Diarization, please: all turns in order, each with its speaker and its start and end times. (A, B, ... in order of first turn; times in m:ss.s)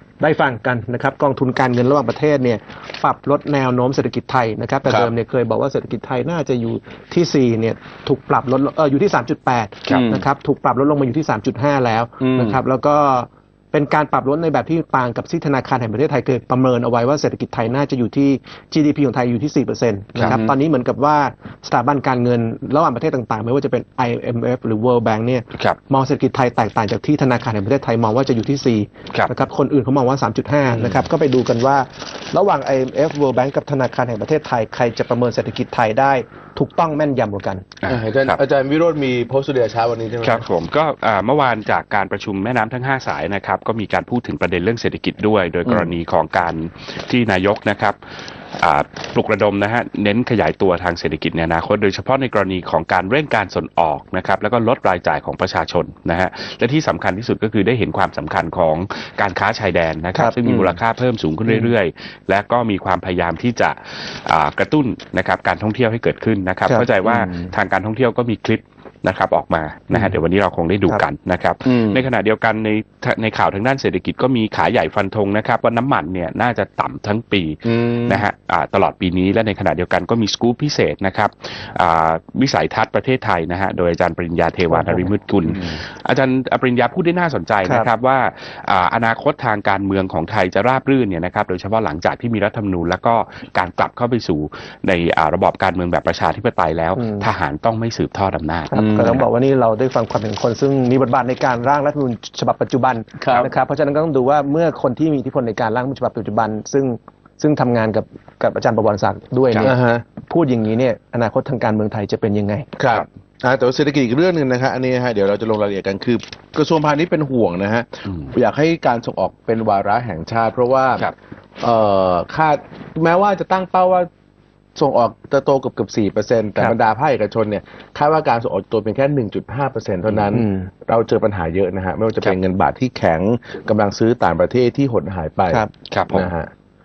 0:00.2-0:37.6 A
0:09.9-0:10.3 B
0:12.2-0:12.6 B
0:20.2-0:20.4 C
0:20.2-0:20.5 B
0:30.7-0:31.0 C
0:37.8-0:38.4 C
0:37.9-0:40.4 B
0:40.2-0:48.0 C
0:45.6-0:45.9 B
0:48.6-1:39.2 C
1:00.4-1:00.8 B
1:01.5-1:01.7 A
1:07.0-1:07.5 B
1:11.6-1:12.0 B
1:17.6-1:18.2 B
1:24.7-1:25.1 A
1:25.5-1:25.8 B
1:27.6-1:27.9 A
1:37.0-1:37.3 A
1:38.7-1:52.7 A
1:38.7-1:39.2 B
1:43.2-1:43.5 B
1:49.6-1:50.0 B
1:52.8-2:04.1 B
2:04.8-2:16.5 B
2:10.3-2:10.7 A
2:15.9-2:16.3 C